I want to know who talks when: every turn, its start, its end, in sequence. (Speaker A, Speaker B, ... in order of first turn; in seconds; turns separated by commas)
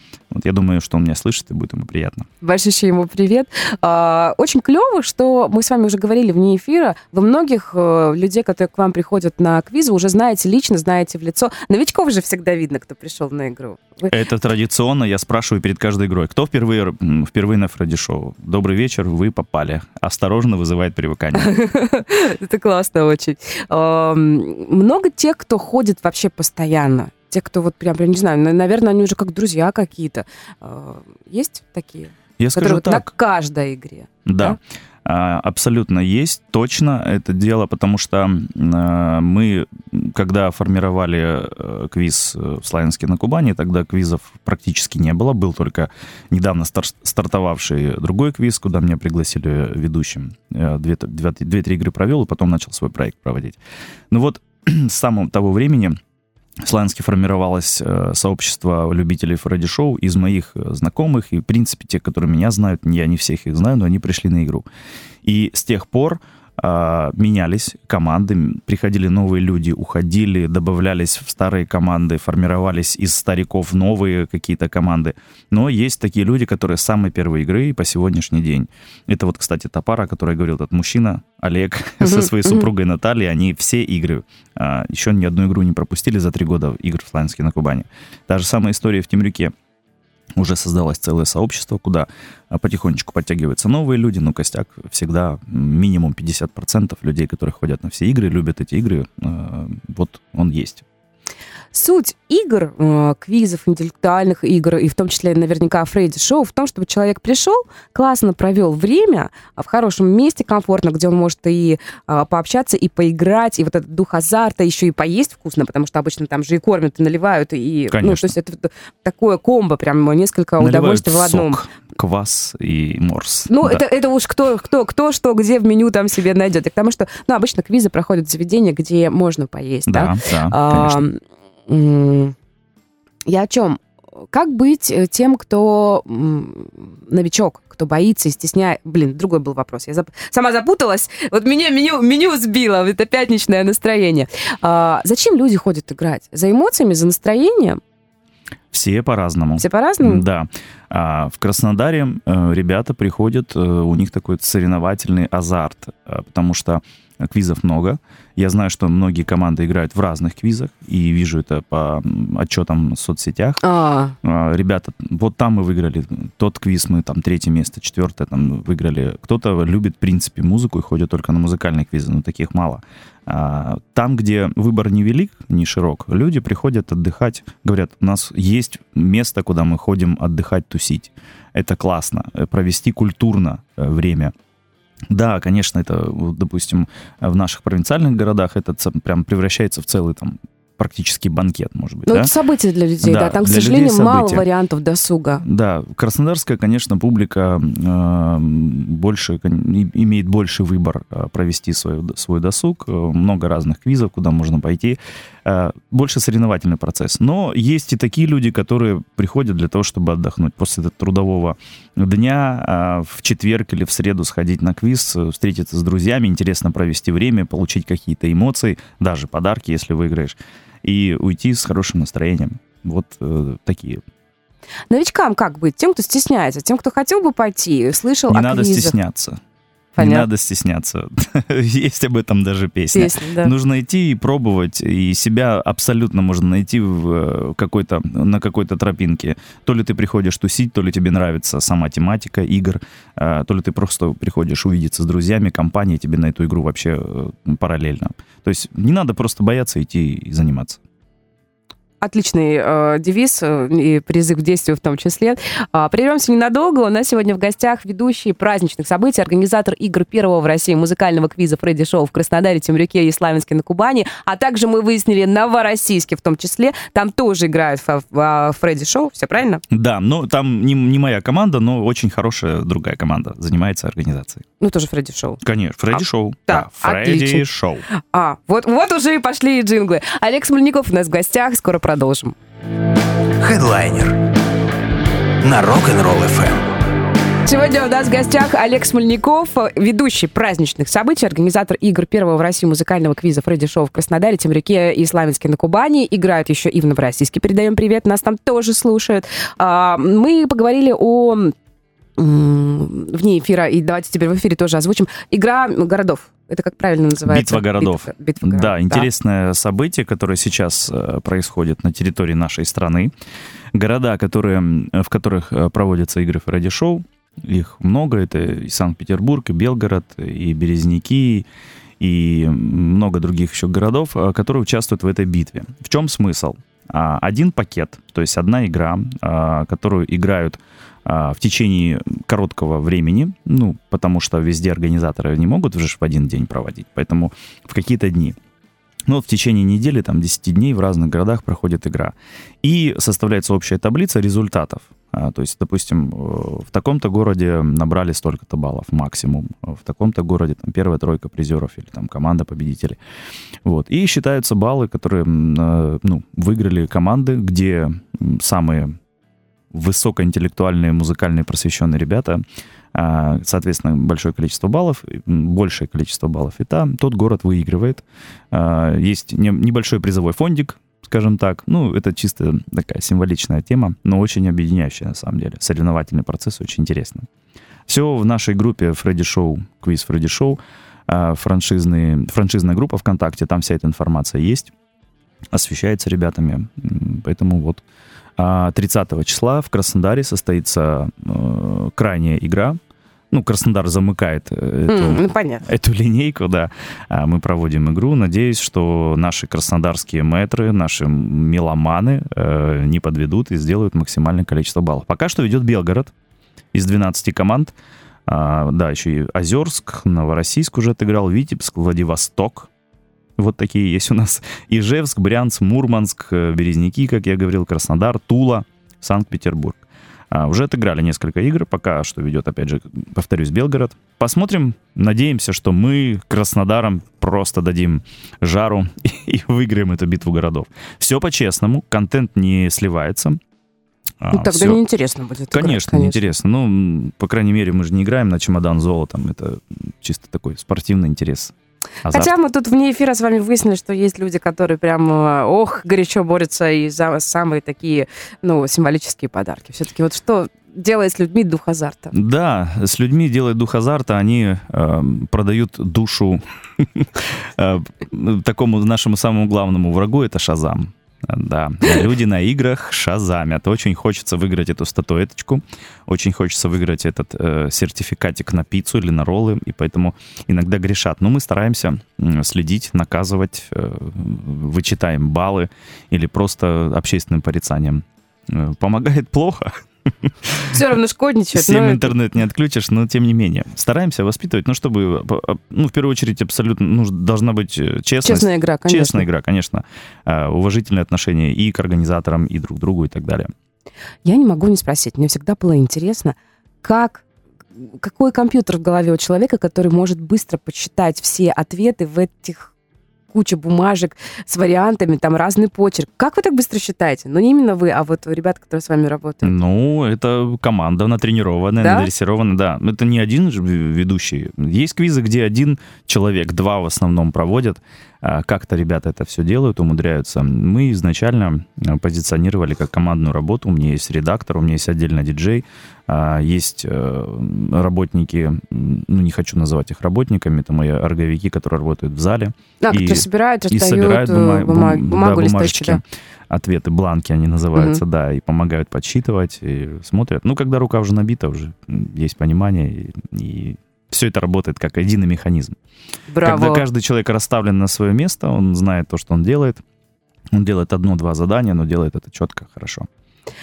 Speaker A: 0.3-2.3, Speaker B: 2.4-14.2, Speaker A: 14.1-21.5, Speaker B: 21.4-34.6, Speaker A: 32.4-33.1, Speaker A: 34.3-53.6, Speaker A: 54.1-56.0, Speaker A: 56.6-64.7, Speaker A: 65.2-89.5, Speaker B: 82.0-82.7, Speaker A: 90.4-100.8, Speaker B: 101.7-121.6, Speaker A: 117.9-118.3, Speaker A: 120.6-123.8, Speaker B: 123.5-132.3, Speaker A: 129.9-131.0, Speaker B: 133.3-147.8, Speaker A: 148.7-163.6, Speaker B: 149.6-150.2, Speaker B: 163.6-164.2, Speaker A: 164.2-184.3, Speaker A: 185.1-192.3, Speaker B: 192.1-195.4, Speaker A: 193.0-194.4, Speaker A: 195.4-224.0, Speaker B: 224.9-229.0, Speaker A: 228.3-229.4, Speaker B: 230.0-230.3, Speaker A: 230.0-250.8, Speaker B: 232.9-233.5, Speaker B: 252.0-269.6, Speaker A: 269.7-274.4, Speaker B: 274.6-275.4, Speaker A: 275.4-277.9, Speaker B: 276.5-282.4, Speaker C: 283.4-284.2, Speaker C: 285.4-286.8, Speaker B: 287.5-301.6, Speaker B: 302.2-309.1, Speaker A: 307.2-313.1, Speaker A: 313.7-321.5, Speaker A: 322.0-338.4, Speaker A: 339.1-353.0, Speaker A: 353.6-359.0, Speaker A: 359.7-362.4, Speaker A: 362.9-377.3, Speaker A: 377.9-384.7, Speaker A: 385.5-387.8, Speaker A: 388.4-392.8, Speaker A: 393.3-406.1, Speaker B: 394.9-395.7, Speaker A: 406.7-407.7, Speaker A: 408.3-412.7, Speaker A: 413.4-433.4, Speaker A: 434.2-434.8, Speaker B: 434.3-436.2, Speaker A: 435.5-442.3, Speaker B: 442.1-452.1, Speaker A: 452.1-480.8, Speaker B: 480.7-482.1, Speaker A: 481.5-493.5, Speaker B: 488.2-489.2, Speaker B: 494.2-497.2, Speaker B: 497.8-502.7, Speaker B: 503.3-509.6, Speaker A: 509.4-545.8, Speaker B: 511.8-512.1, Speaker B: 532.8-536.0, Speaker B: 537.8-538.0, Speaker B: 546.3-546.9, Speaker A: 546.4-549.8, Speaker A: 550.5-553.1